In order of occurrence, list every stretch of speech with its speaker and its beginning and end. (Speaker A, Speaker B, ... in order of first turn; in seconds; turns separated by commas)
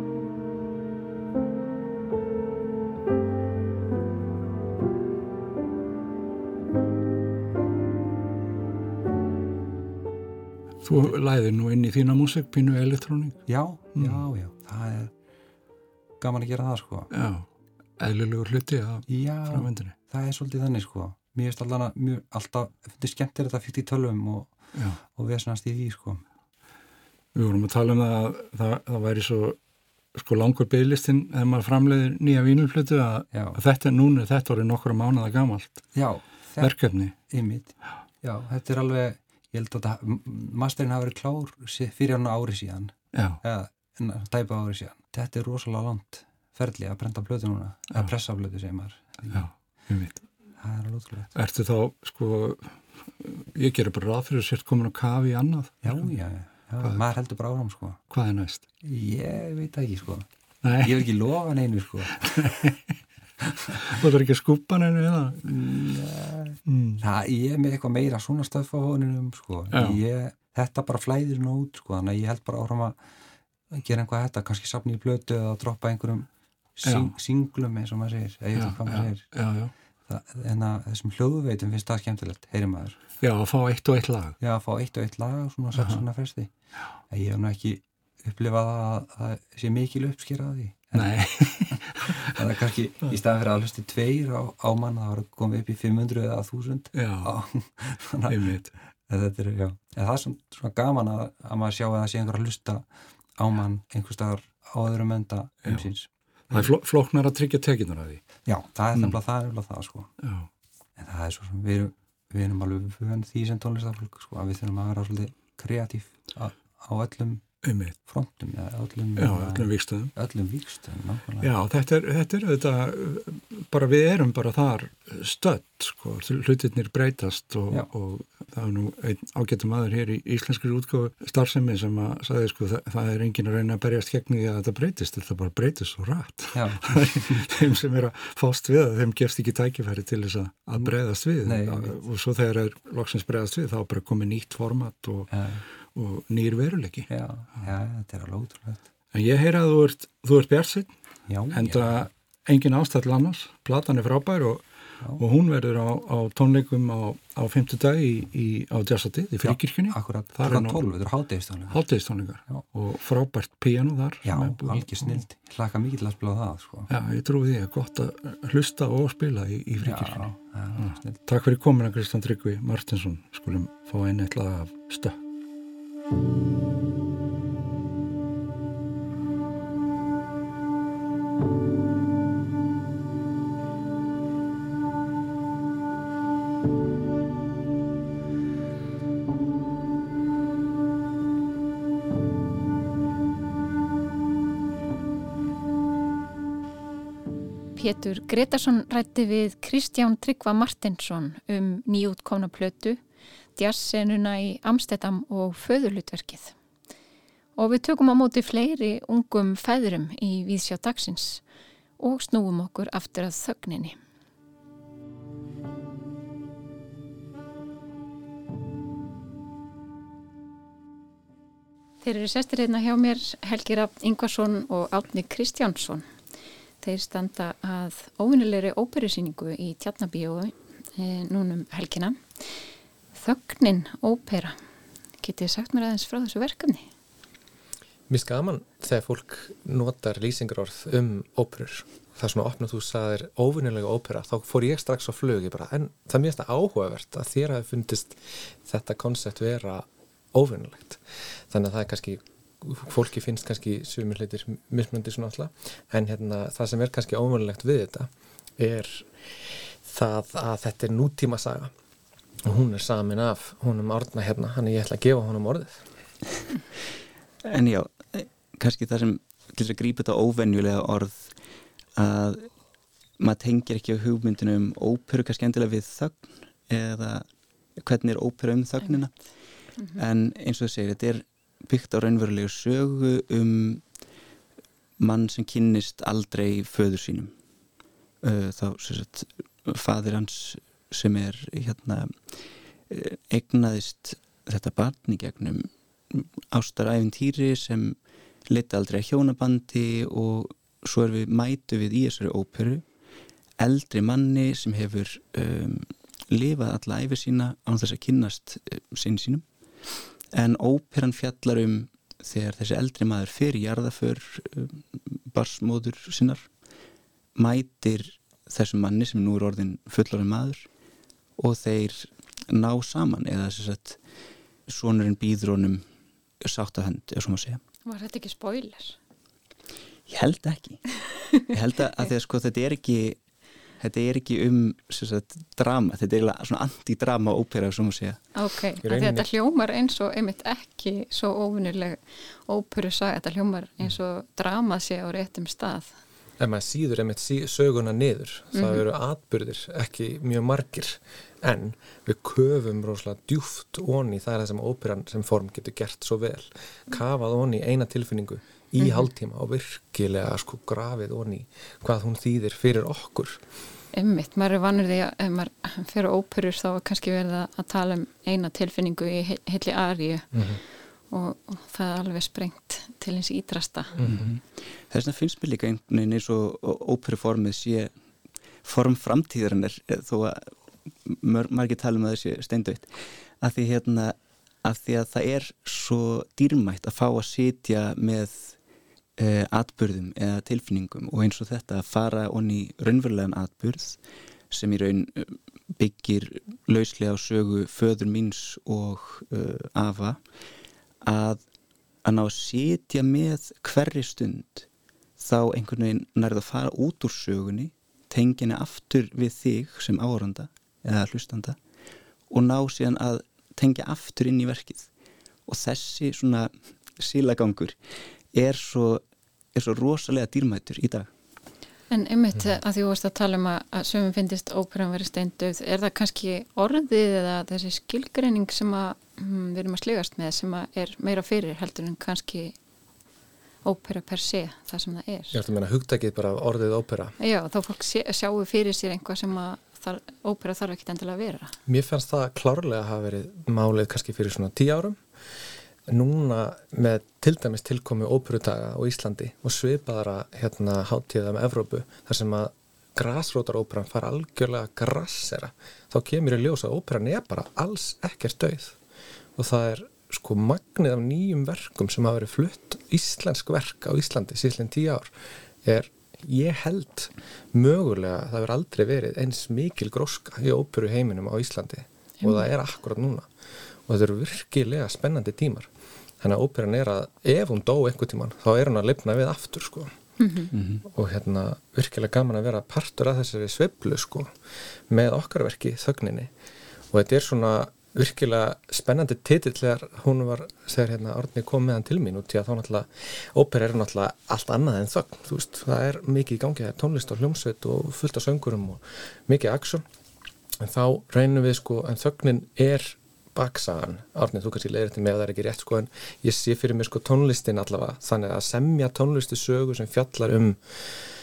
Speaker A: 10.8-13.4, Speaker B: 10.9-11.2, Speaker B: 13.5-15.1, Speaker A: 13.9-14.2, Speaker B: 16.2-17.1, Speaker A: 17.1-17.5, Speaker A: 18.0-19.9, Speaker B: 19.1-26.2, Speaker A: 27.3-29.6, Speaker A: 30.1-35.8, Speaker B: 33.3-33.6, Speaker B: 35.9-49.5, Speaker A: 36.6-37.1, Speaker A: 43.1-43.4, Speaker A: 49.3-50.2, Speaker B: 50.6-51.3, Speaker A: 51.4-56.0, Speaker B: 55.8-58.0, Speaker A: 58.1-58.6, Speaker B: 58.8-62.7, Speaker A: 60.6-61.0, Speaker A: 62.2-62.8, Speaker B: 63.4-64.0, Speaker A: 63.8-65.4, Speaker B: 65.4-73.0, Speaker A: 66.7-67.0, Speaker A: 69.7-70.0, Speaker B: 73.7-79.3, Speaker A: 76.8-77.1, Speaker A: 78.6-79.7, Speaker B: 80.1-83.0, Speaker A: 83.2-84.4, Speaker B: 84.4-86.5, Speaker A: 85.8-86.0, Speaker B: 87.1-98.5, Speaker A: 91.0-92.3, Speaker A: 96.9-97.3, Speaker A: 98.3-98.7, Speaker B: 99.1-102.9, Speaker B: 103.4-106.7, Speaker A: 106.5-108.2, Speaker B: 108.4-110.1, Speaker A: 110.2-110.5, Speaker B: 111.0-121.5, Speaker A: 117.6-118.0, Speaker A: 119.2-120.1, Speaker A: 121.4-145.3, Speaker B: 136.5-137.4, Speaker B: 140.8-142.0, Speaker B: 145.3-145.6, Speaker A: 145.9-147.1, Speaker B: 147.1-148.8, Speaker A: 149.1-150.9, Speaker B: 151.3-152.1, Speaker A: 151.5-160.8, Speaker B: 159.4-161.8, Speaker A: 161.7-165.2, Speaker B: 164.2-166.9, Speaker A: 166.9-170.2, Speaker B: 169.8-171.2, Speaker A: 170.8-175.2, Speaker C: 197.8-203.0, Speaker C: 203.6-206.6, Speaker C: 207.6-211.4, Speaker C: 212.0-214.0, Speaker C: 222.0-226.1, Speaker C: 226.8-232.2, Speaker C: 233.1-234.6, Speaker C: 235.2-236.9, Speaker D: 238.1-261.7, Speaker D: 262.4-265.9, Speaker E: 267.4-271.3, Speaker E: 272.0-272.5, Speaker E: 273.2-277.2, Speaker E: 277.8-279.1, Speaker C: 279.8-280.0, Speaker E: 279.9-283.8, Speaker E: 285.0-287.3, Speaker E: 288.2-292.3, Speaker E: 292.9-298.0, Speaker E: 298.5-302.8, Speaker E: 303.6-309.4, Speaker E: 310.3-316.5, Speaker E: 317.4-320.7, Speaker E: 321.4-324.0, Speaker E: 324.7-325.8, Speaker E: 326.4-327.6, Speaker C: 327.9-329.0, Speaker E: 330.1-333.2, Speaker E: 333.8-338.2, Speaker C: 338.4-345.9, Speaker D: 338.8-339.3, Speaker D: 346.4-363.4, Speaker C: 348.5-348.8, Speaker C: 363.9-370.4, Speaker D: 370.3-370.6, Speaker C: 371.1-374.0, Speaker D: 374.0-374.3, Speaker E: 374.0-377.9, Speaker E: 378.6-380.5, Speaker E: 381.0-388.6, Speaker E: 389.2-394.0, Speaker E: 394.5-400.2, Speaker E: 401.0-401.4, Speaker E: 402.0-404.6, Speaker E: 405.2-411.6, Speaker E: 412.3-414.9, Speaker E: 415.5-417.8, Speaker E: 418.3-419.0, Speaker E: 419.5-421.1, Speaker C: 421.9-432.6, Speaker C: 433.6-435.4, Speaker D: 435.3-437.1, Speaker C: 437.2-441.6, Speaker D: 441.7-445.0, Speaker D: 445.9-458.8, Speaker D: 459.4-465.1, Speaker D: 465.6-473.3, Speaker C: 472.2-472.5, Speaker D: 473.9-475.7, Speaker D: 476.2-479.9, Speaker C: 480.2-480.5, Speaker E: 480.5-480.8, Speaker D: 480.9-484.3, Speaker D: 484.9-486.3, Speaker D: 486.9-499.8, Speaker D: 500.6-510.8